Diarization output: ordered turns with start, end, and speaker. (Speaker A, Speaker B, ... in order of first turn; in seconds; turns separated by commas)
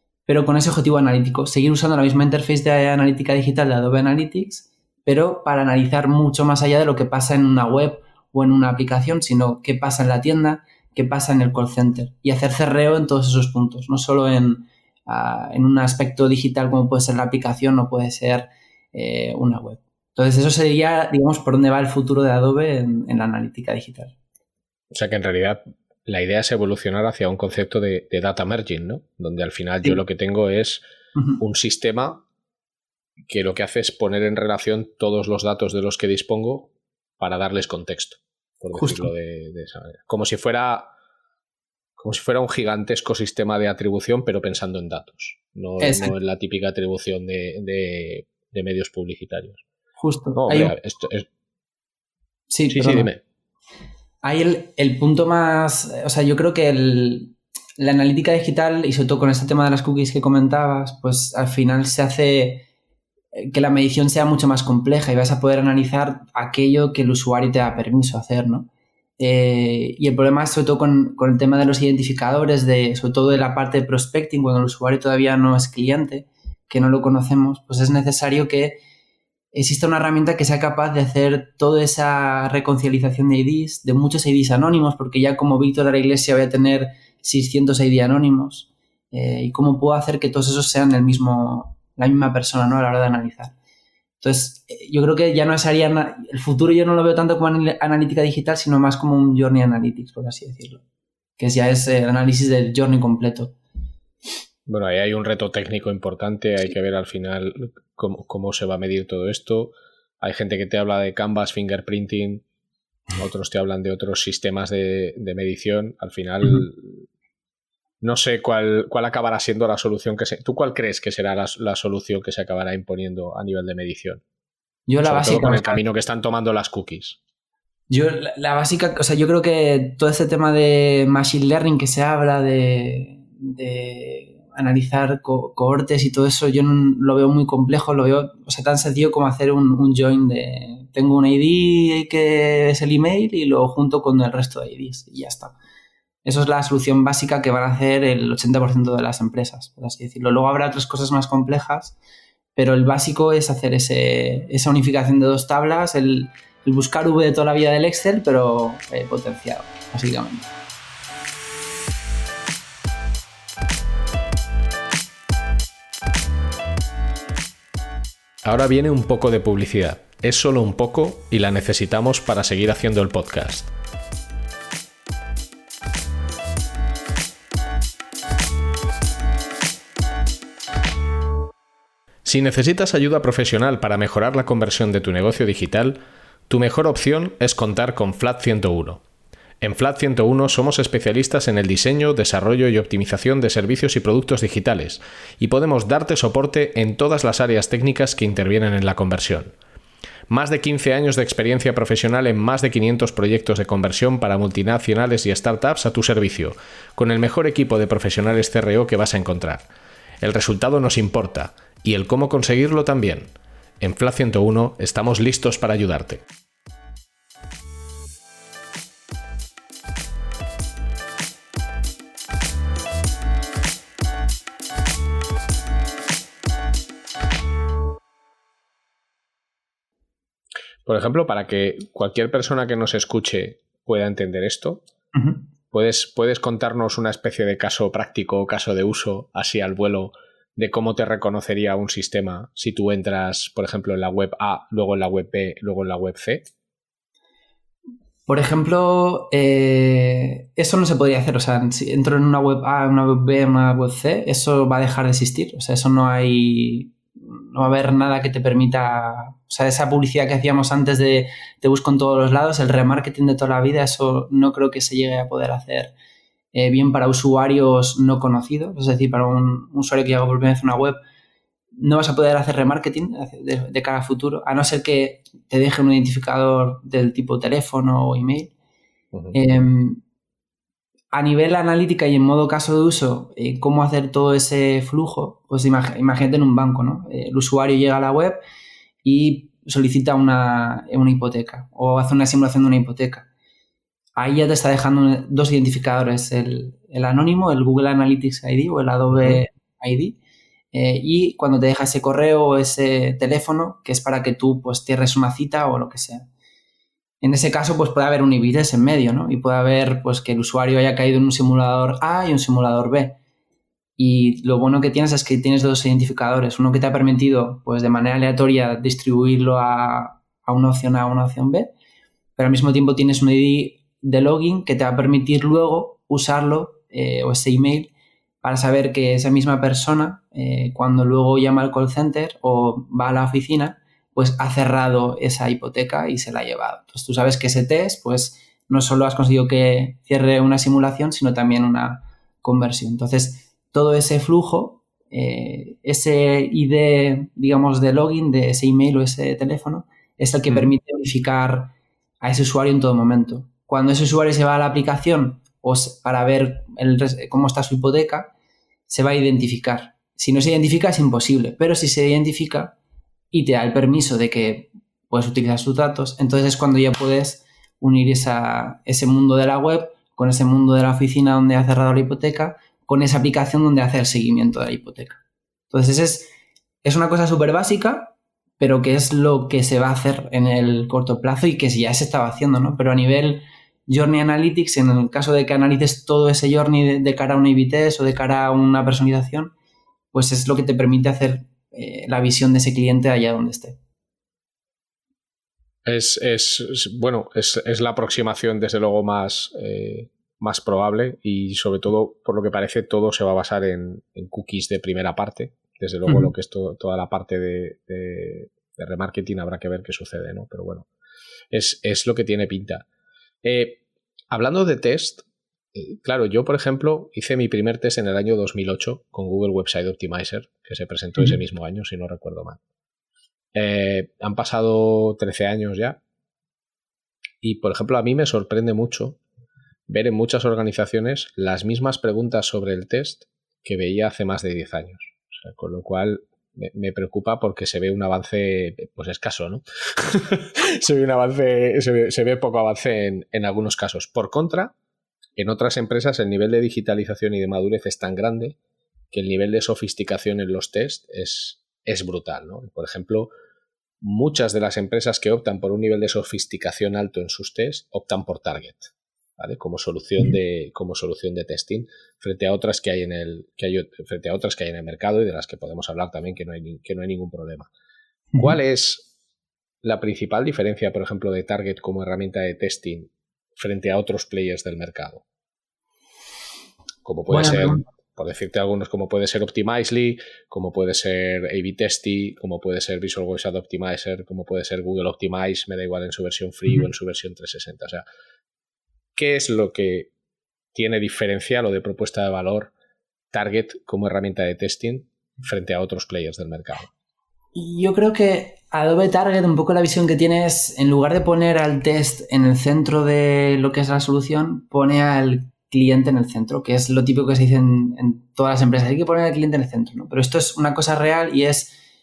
Speaker A: 0.3-24.1, Speaker B: 24.9-30.8, Speaker B: 31.4-32.2, Speaker B: 33.3-40.9, Speaker A: 38.7-39.1, Speaker B: 42.0-49.6, Speaker A: 45.8-46.1, Speaker A: 50.0-50.7, Speaker B: 50.4-51.3, Speaker A: 52.5-53.1, Speaker B: 52.7-53.2, Speaker A: 54.2-62.6, Speaker A: 63.3-68.7, Speaker A: 69.2-78.8, Speaker A: 79.5-93.5, Speaker A: 94.2-100.8, Speaker A: 101.4-103.5, Speaker B: 104.7-112.4, Speaker B: 113.2-117.0, Speaker B: 118.0-124.2, Speaker A: 124.9-125.8, Speaker B: 125.0-127.2, Speaker A: 127.9-145.5, Speaker A: 146.2-151.9, Speaker A: 152.6-160.5, Speaker B: 168.4-173.7, Speaker B: 182.2-189.0, Speaker B: 189.6-199.5, Speaker B: 200.3-209.7, Speaker B: 210.2-216.2, Speaker B: 230.8-234.8, Speaker A: 235.1-235.4, Speaker B: 235.7-246.4, Speaker A: 248.3-265.9, Speaker A: 266.5-271.0, Speaker A: 271.8-278.5, Speaker A: 279.3-280.0, Speaker A: 281.1-288.4, Speaker A: 289.0-293.3, Speaker A: 294.1-300.2, Speaker B: 299.1-299.4, Speaker A: 300.7-306.3, Speaker A: 307.2-313.2, Speaker A: 314.0-321.7, Speaker A: 322.4-327.9, Speaker A: 328.4-358.3, Speaker A: 358.9-362.8, Speaker A: 363.3-375.2, Speaker A: 375.7-376.3, Speaker A: 376.8-389.5, Speaker A: 390.1-393.8, Speaker B: 395.8-410.9, Speaker A: 406.1-406.3, Speaker B: 411.5-412.9, Speaker B: 413.4-422.6, Speaker B: 423.5-426.0, Speaker B: 427.4-429.2, Speaker B: 429.9-444.7, Speaker B: 445.4-448.6, Speaker B: 449.1-453.3, Speaker B: 454.0-467.7, Speaker B: 468.4-469.1, Speaker B: 469.8-475.2, Speaker B: 477.0-488.0, Speaker A: 477.3-477.8, Speaker B: 489.1-490.1, Speaker B: 490.7-492.7, Speaker B: 493.3-496.9, Speaker A: 497.5-511.8